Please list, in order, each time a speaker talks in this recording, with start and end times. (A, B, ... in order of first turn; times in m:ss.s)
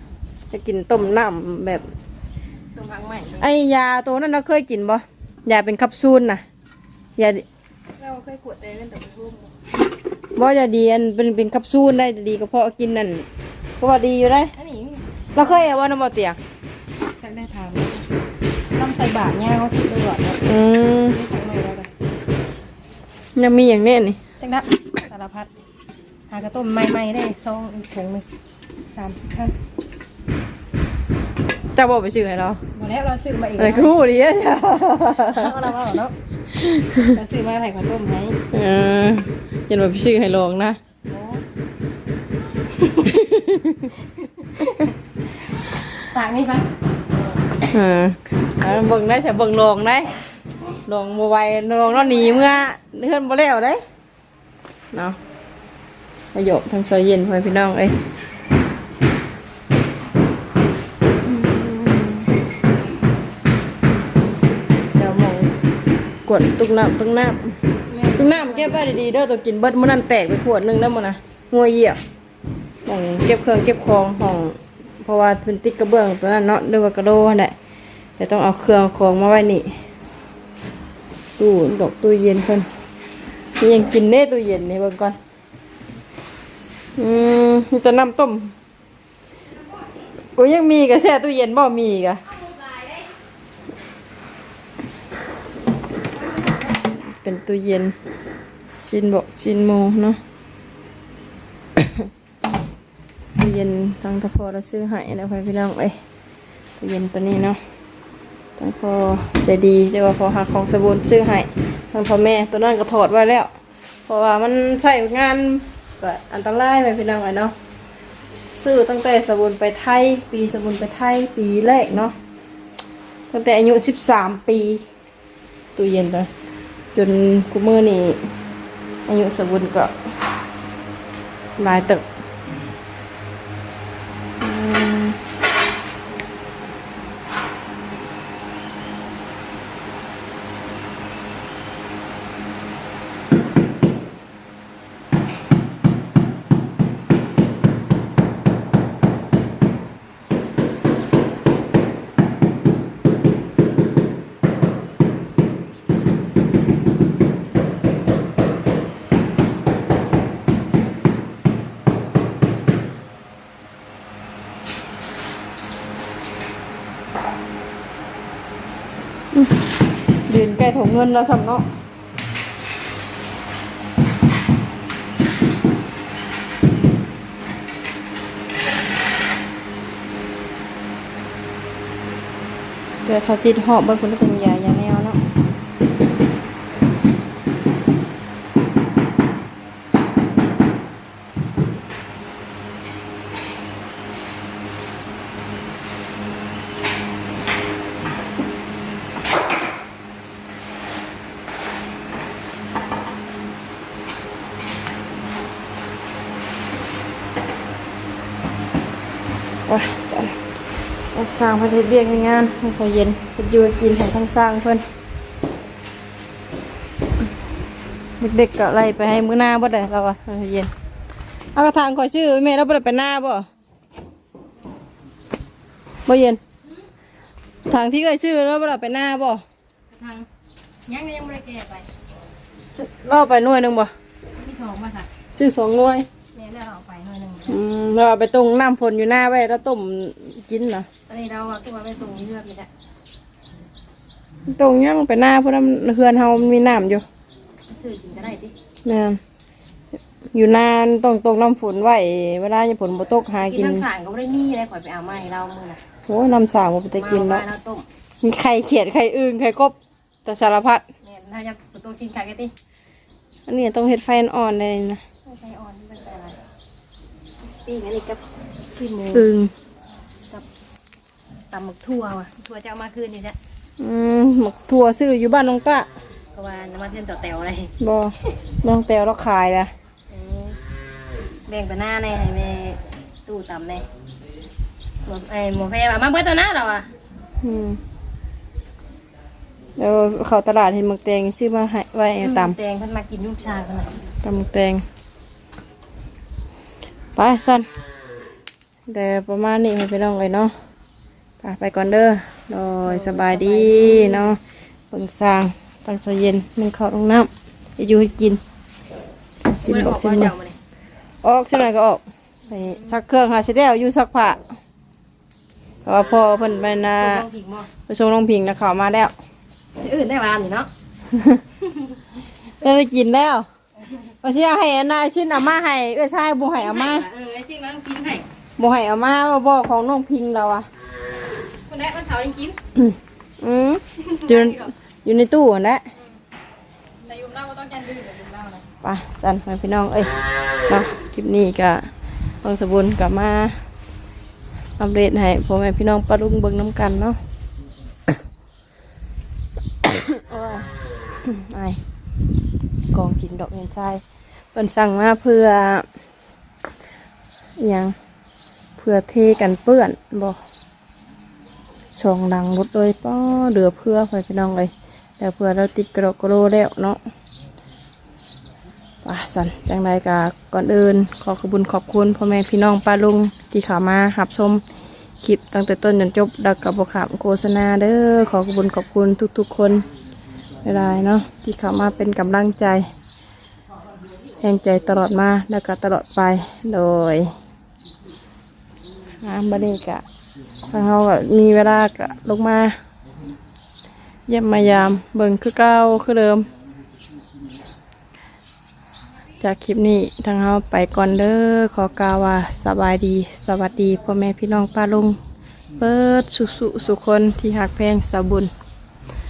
0:00.5-0:01.9 A
0:02.8-0:03.5 B
0:03.4-0:06.4 A
0:07.2-0:07.4 A
0:08.0-0:09.5 B
0:10.4-0:13.3 A
0:13.8-0:14.5 A
0:14.6-0:15.7 B
0:15.4-0:16.4 A
0:17.2-0:18.1 B
0:18.7-0:20.4 B
0:20.4-0:21.2 A
0:21.1-0:21.9 B
0:23.4-0:24.2 A
0:24.4-0:25.5 B
0:26.3-0:28.2 B
0:28.9-0:29.6 B
0:31.8-0:32.6 A
0:32.8-0:33.9 B
0:33.6-0:35.6 A
0:35.2-0:36.1 B
0:36.6-0:37.1 A
0:37.0-0:38.4 B
0:38.5-0:40.8 A
0:41.1-0:41.4 B
0:42.7-0:43.1 B
0:43.0-0:43.9 A
0:44.0-0:44.9 B
0:46.0-0:46.7 B
0:47.7-0:50.1 A
0:50.8-0:53.8 A
0:51.9-0:52.7 B
0:56.3-0:58.0 A
1:01.2-1:02.3 A
1:04.9-1:05.5 A
1:06.3-1:07.6 A
1:07.9-1:08.8 B
1:08.2-1:12.0 A
1:12.9-1:17.6 A
1:18.2-1:19.8 A
1:21.4-1:22.7 A
1:23.6-1:25.2 A
1:27.0-1:28.6 A
1:30.4-1:32.2 A
1:32.5-1:33.0 B
1:37.0-1:38.0 A
1:38.8-1:40.2 A
1:43.4-1:46.0 A
1:46.8-1:47.6 A
1:48.6-1:53.5 A
1:54.1-1:57.5 A
1:58.5-2:02.2 A
2:03.3-2:04.8 A
2:05.8-2:06.3 A
2:06.9-2:08.3 A
2:09.1-2:09.9 A
2:11.6-2:12.0 A
2:14.4-2:15.2 A
2:50.3-2:51.6 A
3:03.1-3:05.2 A
3:29.7-3:30.4 A
3:31.1-3:34.8 A
3:38.2-3:40.7 A
3:41.6-3:43.5 A
3:46.1-3:46.4 A
3:47.7-3:49.4 A
3:49.9-3:50.3 B
3:50.9-3:51.9 B
3:52.8-3:53.9 A
3:54.4-3:55.1 B
3:55.4-3:56.1 A
3:56.4-3:57.6 B
3:57.5-4:00.9 A
4:01.1-4:02.7 B
4:04.5-4:07.0 A
4:07.7-4:08.5 B
4:08.8-4:09.2 A
4:10.3-4:13.8 A
4:13.5-4:15.8 B
4:16.1-4:17.4 A
4:17.0-4:17.9 B
4:18.2-4:19.8 A
4:20.3-4:20.8 A
4:21.0-4:22.5 B
4:23.5-4:25.0 A
4:25.3-4:26.4 B
4:27.4-4:28.2 B
4:28.7-4:29.3 B
4:29.1-4:29.5 A
4:31.5-4:33.4 B
4:33.8-4:35.9 A
4:36.4-4:37.7 B
4:37.8-4:39.7 A
4:40.1-4:40.6 B
4:41.5-4:43.9 B
4:45.0-4:46.9 B
4:47.4-4:47.8 A
4:49.8-4:52.6 A
4:52.2-4:54.0 B
4:54.2-4:54.8 A
4:57.2-4:57.7 A
4:58.9-5:00.5 A
5:01.4-5:04.4 A
5:02.8-5:04.3 B
5:04.9-5:08.4 A
5:09.5-5:10.3 A
5:09.6-5:10.6 B
5:11.2-5:14.4 A
5:15.8-5:17.2 A
5:17.0-5:17.7 B
5:17.9-5:19.1 A
5:19.8-5:20.7 B
5:21.1-5:21.4 A
5:21.6-5:22.0 B
5:22.6-5:23.5 A
5:23.8-5:24.1 B
5:24.2-5:27.0 A
5:26.5-5:28.2 B
5:28.6-5:30.7 A
5:31.7-5:32.6 B
5:32.8-5:35.8 A
5:34.0-5:34.7 B
5:37.0-5:38.6 B
5:38.8-5:40.1 A
5:40.7-5:41.9 A
5:42.4-5:43.6 A
5:44.8-5:47.2 A
5:49.8-5:50.7 A
5:51.2-5:51.8 A
5:52.9-5:54.0 A
5:54.5-5:55.9 A
5:57.6-5:57.9 A
5:58.8-6:00.4 A
6:02.0-6:07.0 A
6:09.0-6:14.6 A
6:15.2-6:19.8 A
6:20.6-6:22.9 A
6:24.4-6:27.3 A
6:29.2-6:30.0 A
6:30.7-6:32.8 A
6:34.3-6:36.5 A
6:39.4-6:45.2 A
6:45.8-6:48.5 A